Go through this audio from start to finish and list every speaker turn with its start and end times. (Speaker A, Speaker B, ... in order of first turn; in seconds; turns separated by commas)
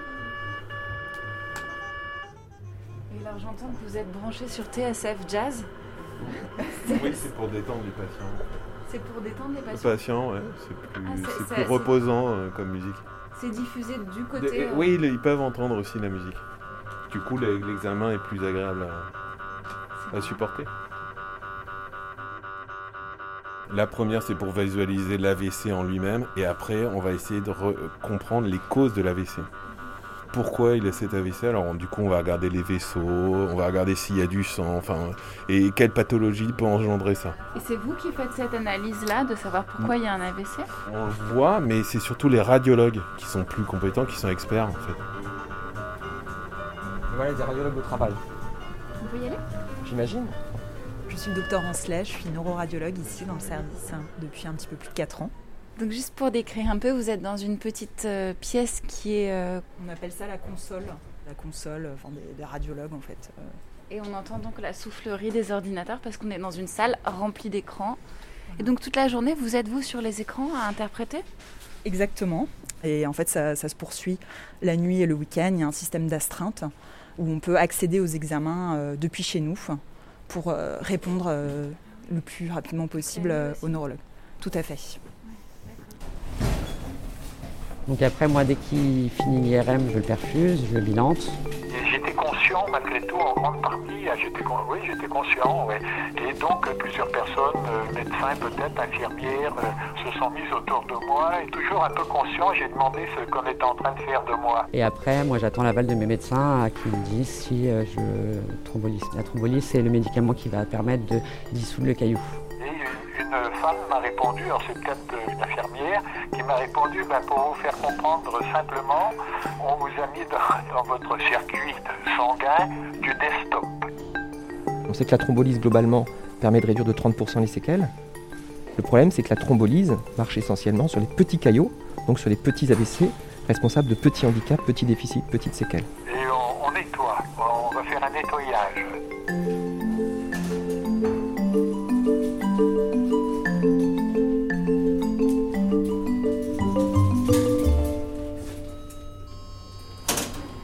Speaker A: 3.1-5.7, Speaker A: 6.8-7.2, Speaker B: 6.9-8.4, Speaker A: 8.9-10.0, Speaker B: 9.7-13.0, Speaker A: 11.0-11.9, Speaker A: 13.4-14.9, Speaker B: 14.3-16.4, Speaker B: 17.1-19.1, Speaker B: 20.1-20.7, Speaker A: 20.1-20.4, Speaker B: 23.7-29.5, Speaker B: 30.3-37.4, Speaker A: 37.5-40.6, Speaker B: 40.9-45.0, Speaker C: 47.1-48.2, Speaker C: 49.8-50.4, Speaker D: 51.1-55.3, Speaker A: 55.8-59.6, Speaker D: 59.7-63.6, Speaker A: 63.9-68.0, Speaker A: 68.6-71.2, Speaker D: 71.8-85.0, Speaker E: 87.9-91.4, Speaker F: 91.7-104.7, Speaker E: 104.7-112.4, Speaker F: 112.6-123.8, Speaker C: 124.9-127.9, Speaker C: 128.8-135.9, Speaker F: 136.1-139.0